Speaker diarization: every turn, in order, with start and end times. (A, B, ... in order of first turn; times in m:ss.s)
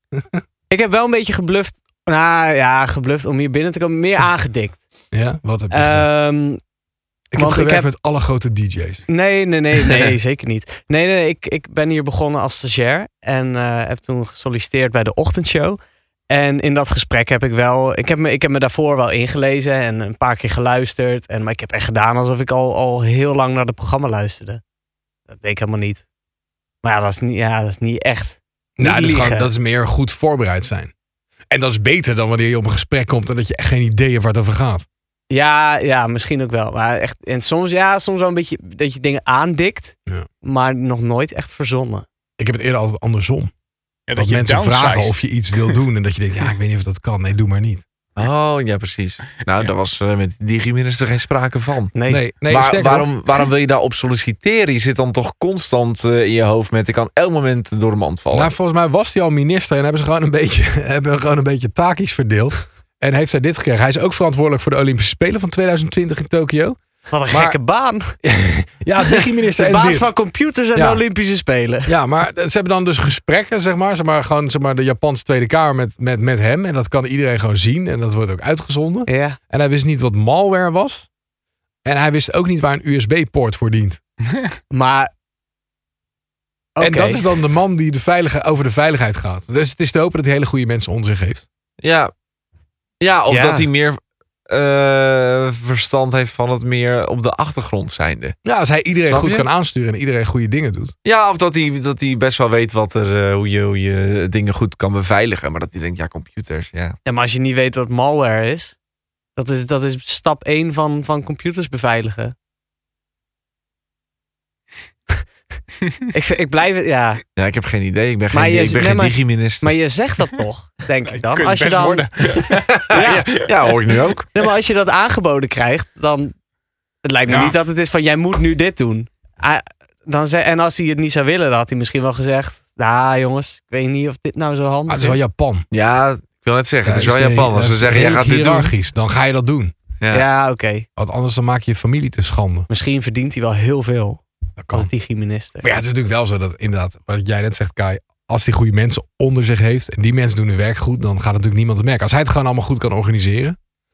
0:00.1-0:00.4 A
0:00.7-0:04.8 B
0:05.1-0:06.1 A
0:05.7-0:06.6 B
0:07.3-0:09.0 A
0:07.4-0:07.9 B
0:09.1-0:15.8 B
0:16.3-0:24.6 B
0:25.3-0:26.0 B
0:26.8-0:29.5 B
0:28.8-0:30.9 A
0:31.5-0:34.8 A
0:35.3-0:42.0 B
0:42.4-0:43.5 A
0:44.1-0:45.1 C
0:44.1-0:47.8 A
0:48.2-0:51.9 D
0:51.9-0:52.2 B
0:52.1-0:53.1 A
0:52.5-0:58.5 D
0:58.3-1:06.8 A
1:07.1-1:08.1 B
1:07.3-1:07.6 A
1:08.2-1:10.1 A
1:09.6-1:11.9 B
1:10.8-1:11.0 A
1:11.9-1:21.1 A
1:19.1-1:19.4 B
1:21.8-1:24.0 A
1:24.7-1:25.1 B
1:26.8-1:27.3 B
1:26.8-1:31.5 A
1:31.8-1:32.1 D
1:33.0-1:38.4 D
1:33.3-1:33.6 B
1:38.4-1:40.9 A
1:39.1-1:39.5 D
1:41.0-1:47.0 D
1:47.0-1:48.7 B
1:49.4-1:52.3 B
1:56.1-1:57.2 B
1:57.4-1:59.8 D
1:58.3-2:02.1 B
2:01.1-2:03.8 C
2:02.8-2:04.3 D
2:02.9-2:03.4 B
2:04.3-2:06.3 B
2:07.0-2:15.2 B
2:14.9-2:15.6 A
2:15.7-2:18.7 D
2:16.8-2:19.7 A
2:20.0-2:20.2 D
2:20.1-2:20.8 B
2:21.0-2:22.7 A
2:22.7-2:24.2 B
2:24.6-2:24.9 A
2:24.7-2:25.7 B
2:25.6-2:33.6 A